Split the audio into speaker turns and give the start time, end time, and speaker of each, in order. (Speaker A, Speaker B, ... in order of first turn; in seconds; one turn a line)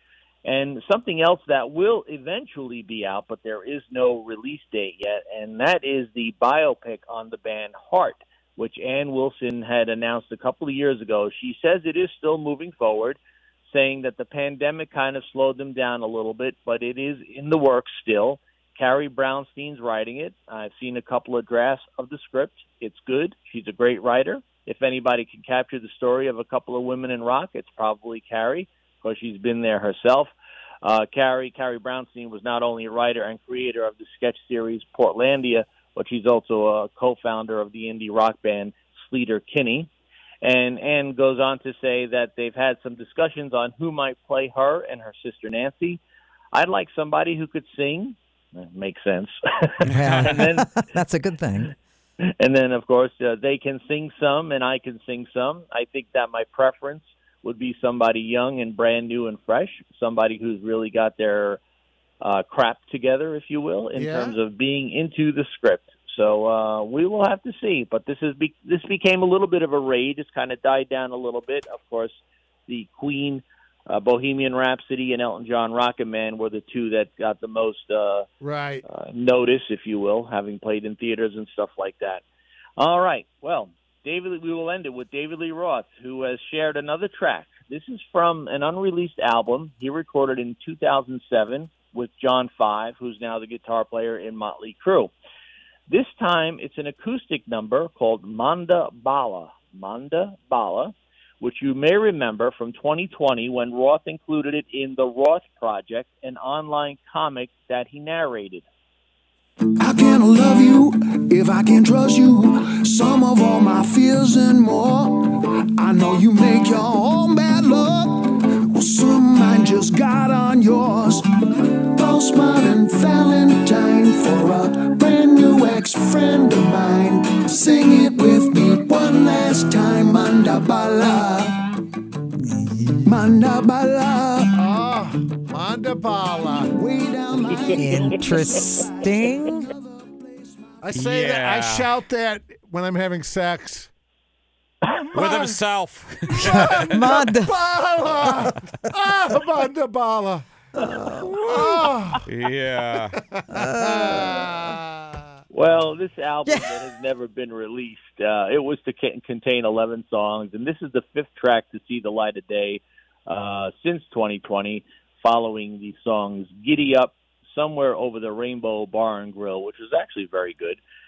Speaker A: 0.5-39.9
Speaker A: 40.4-46.0
Speaker A: 46.5-50.8
Speaker B: 49.9-50.3
Speaker C: 49.9-51.7
Speaker A: 52.4-61.6
Speaker A: 62.2-78.3
Speaker D: 64.0-64.4
Speaker D: 78.4-78.8
Speaker A: 78.9-82.2
Speaker A: 82.8-95.1
Speaker A: 95.9-108.7
Speaker E: 109.8-131.6
Speaker C: 132.4-133.1
Speaker E: 133.1-134.6
Speaker D: 134.6-136.7
Speaker E: 136.7-140.9
Speaker C: 137.7-139.7
Speaker D: 140.8-143.9
Speaker B: 140.9-141.9
Speaker D: 145.1-145.6
Speaker B: 145.1-146.7
Speaker D: 146.4-152.2
Speaker C: 146.4-147.6
Speaker C: 150.8-151.9
Speaker B: 152.3-153.2
Speaker D: 153.2-155.2
Speaker C: 153.5-154.6
Speaker A: 155.5-170.8
Speaker C: 156.5-156.7